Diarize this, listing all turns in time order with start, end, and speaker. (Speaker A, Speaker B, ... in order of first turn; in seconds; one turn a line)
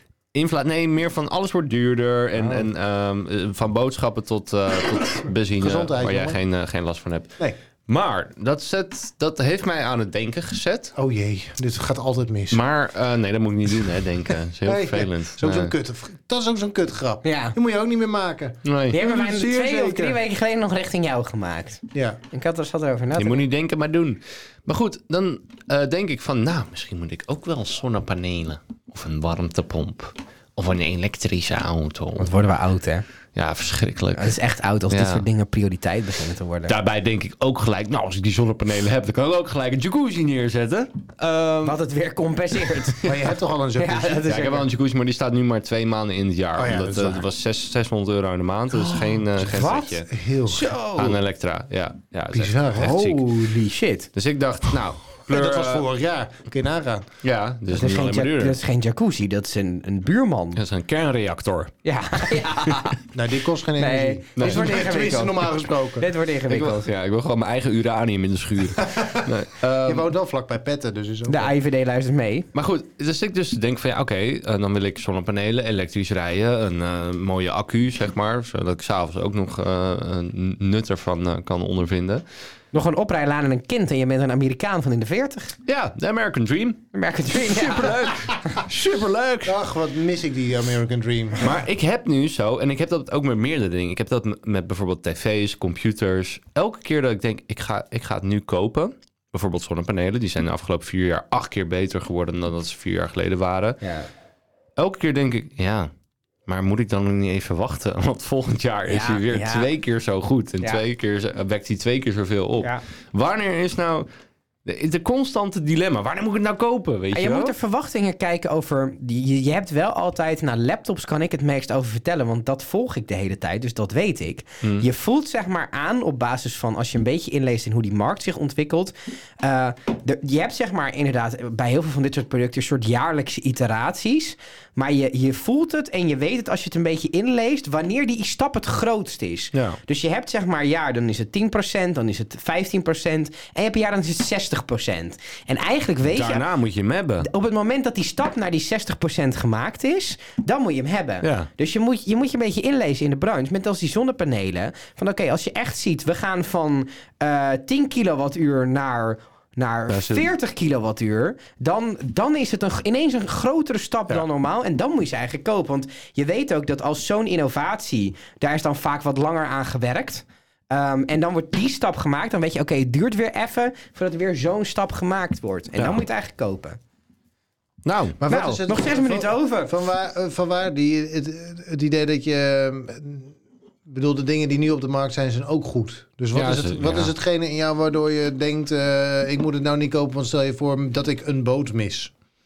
Speaker A: 0.3-10.9
Speaker B: 2.4-2.7
Speaker B: 5.6-6.4
Speaker B: 10.9-12.6
Speaker A: 12.5-15.7
Speaker B: 14.6-20.2
Speaker C: 17.2-17.5
Speaker A: 18.6-19.0
Speaker C: 18.9-23.4
Speaker B: 21.9-22.2
Speaker A: 23.1-32.3
Speaker C: 32.2-33.0
Speaker A: 33.3-34.4
Speaker C: 34.1-36.7
Speaker A: 34.9-35.2
Speaker A: 36.7-41.8
Speaker C: 41.6-43.0
Speaker A: 42.9-43.2
Speaker B: 43.0-44.3
Speaker C: 43.8-44.6
Speaker A: 44.2-50.1
Speaker B: 46.5-47.2
Speaker B: 48.9-50.7
Speaker C: 49.5-50.0
Speaker C: 50.5-51.2
Speaker A: 50.9-53.3
Speaker B: 52.3-53.6
Speaker C: 53.6-54.1
Speaker A: 54.1-55.9
Speaker B: 55.3-57.1
Speaker A: 57.2-58.6
Speaker C: 57.7-60.6
Speaker A: 60.5-61.7
Speaker C: 61.8-63.0
Speaker B: 63.1-66.1
Speaker C: 63.8-66.9
Speaker A: 64.4-64.8
Speaker A: 66.5-70.1
Speaker B: 68.8-71.5
Speaker C: 71.3-72.5
Speaker A: 72.5-82.2
Speaker C: 82.7-85.5
Speaker A: 85.7-89.6
Speaker C: 86.9-88.0
Speaker B: 89.4-91.6
Speaker A: 91.4-103.8
Speaker C: 103.8-104.1
Speaker A: 104.8-105.9
Speaker A: 106.5-114.1
Speaker C: 108.9-109.7
Speaker A: 114.6-117.5
Speaker C: 117.1-146.4
Speaker A: 139.5-139.8
Speaker A: 146.1-147.3
Speaker C: 147.2-176.8
Speaker A: 151.2-151.5
Speaker A: 159.9-160.3
Speaker A: 177.8-178.2
Speaker B: 178.2-183.3
Speaker C: 178.3-179.7
Speaker B: 183.9-192.1
Speaker A: 186.3-187.1